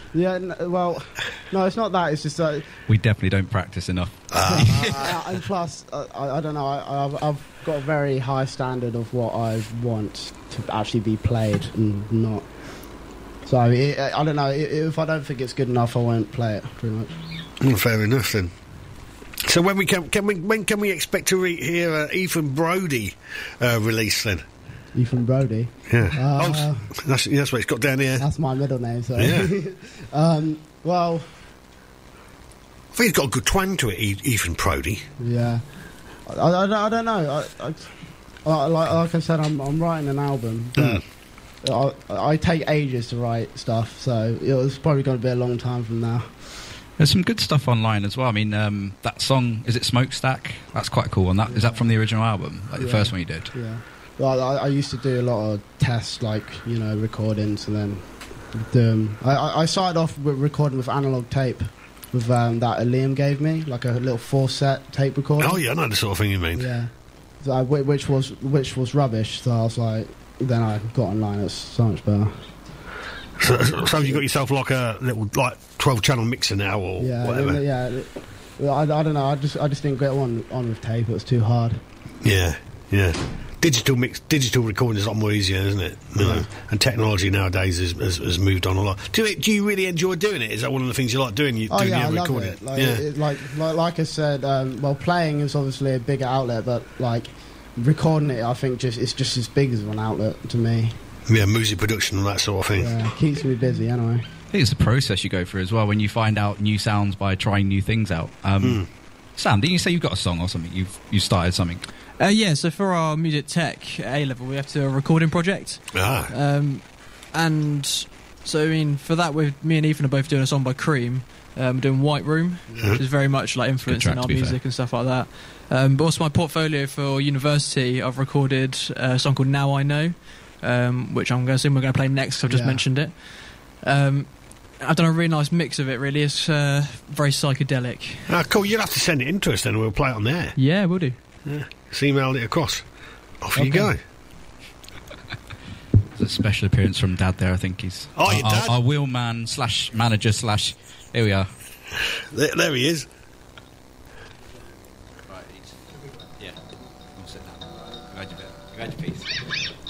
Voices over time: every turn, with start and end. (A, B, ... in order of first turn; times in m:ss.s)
0:00.1-0:02.8 A
0:02.9-0:05.0 B
0:04.3-0:05.1 C
0:04.4-0:17.1 A
0:17.6-0:18.5 C
0:19.4-0:24.4 C
0:24.9-0:26.9 A
0:25.9-0:28.3 C
0:28.2-0:31.3 A
0:29.2-0:29.5 C
0:32.9-0:35.0 C
0:35.2-0:46.6 A
0:47.0-0:53.6 B
0:51.4-0:52.1 A
0:52.7-1:05.7 A
1:05.4-1:06.7 C
1:06.6-1:12.6 A
1:13.4-1:17.6 C
1:13.4-1:14.3 A
1:17.0-1:21.8 A
1:22.2-1:33.0 C
1:26.2-1:26.5 A
1:31.7-1:41.0 A
1:41.2-1:43.0 C
1:42.8-1:44.2 A
1:44.5-1:51.8 B
1:48.6-1:48.9 C
1:52.2-2:18.4 D
1:55.9-1:56.3 C
2:02.7-2:02.9 A
2:02.8-2:03.0 C
2:03.8-2:04.6 B
2:12.4-2:12.9 A
2:18.3-2:24.0 C
2:20.6-2:21.2 D
2:23.5-2:23.9 D
2:26.1-2:31.5 B
2:28.1-2:28.8 C
2:32.3-2:33.1 C
2:35.3-2:35.7 B
2:37.1-2:39.4 B